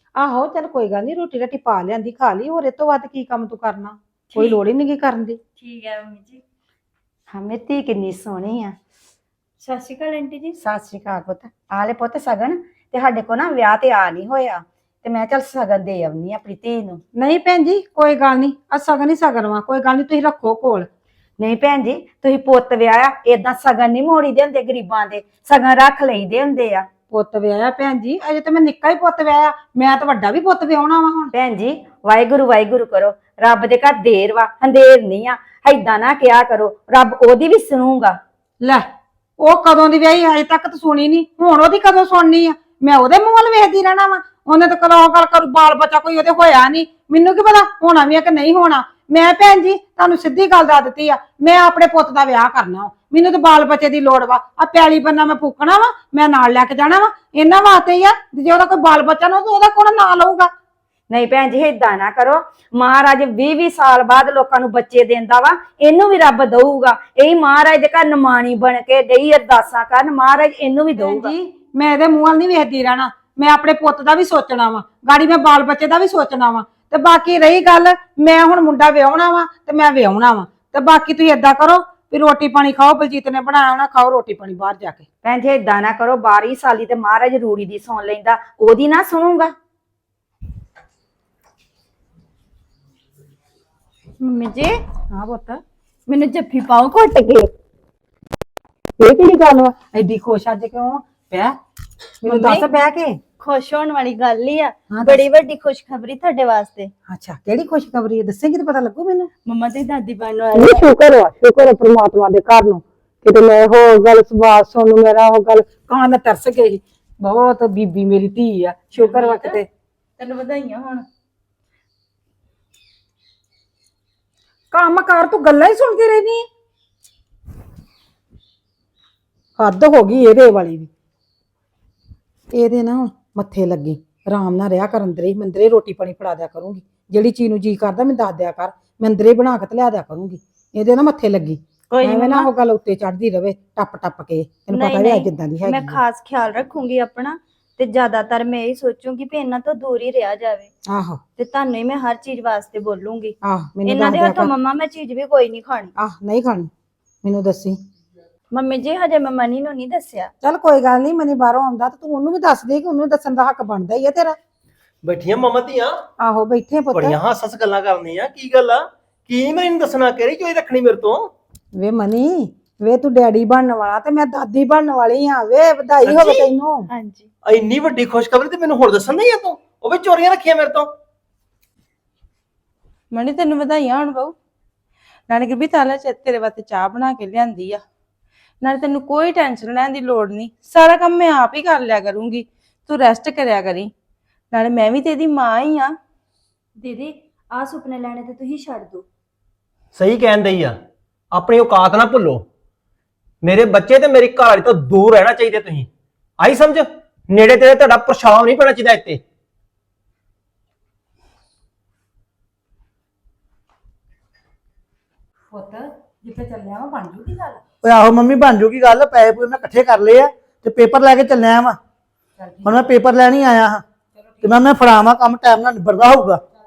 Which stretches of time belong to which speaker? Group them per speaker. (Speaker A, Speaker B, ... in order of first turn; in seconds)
Speaker A: 0.1-5.4, 17.2-20.9, 27.1-31.3, 38.6-38.9, 39.4-60.5, 71.0-85.0, 95.1-95.6, 99.0-101.5, 102.2-103.2, 104.9-105.2, 107.1-109.3, 110.5-119.7, 124.7-126.5, 129.6-130.9, 132.5-146.0, 150.9-151.2, 153.4-154.5, 156.0-156.7, 157.2-157.8, 160.4-164.4, 166.2-167.2, 171.8-176.9, 216.3-217.0
Speaker B: 4.3-4.6, 5.6-6.4, 9.6-10.6, 94.2-94.8, 96.1-97.5, 102.2-102.7, 103.4-106.9, 109.5-110.8, 144.7-150.7, 151.4-155.9, 158.5-160.3, 176.9-177.3, 196.8-199.1
Speaker C: 7.3-8.8, 10.6-17.0, 21.4-26.9, 31.3-38.2, 61.1-71.3, 85.2-89.5
Speaker D: 119.0-119.6, 120.2-121.1, 141.9-142.5, 183.1-184.3, 185.3-187.8, 188.6-193.9, 194.5-195.9
Speaker E: 165.0-166.0, 166.9-171.3, 176.0-176.5, 177.4-180.9, 199.9-200.8, 201.3-202.5, 203.4-209.2
Speaker F: 217.8-221.8, 222.6-223.8, 224.4-226.4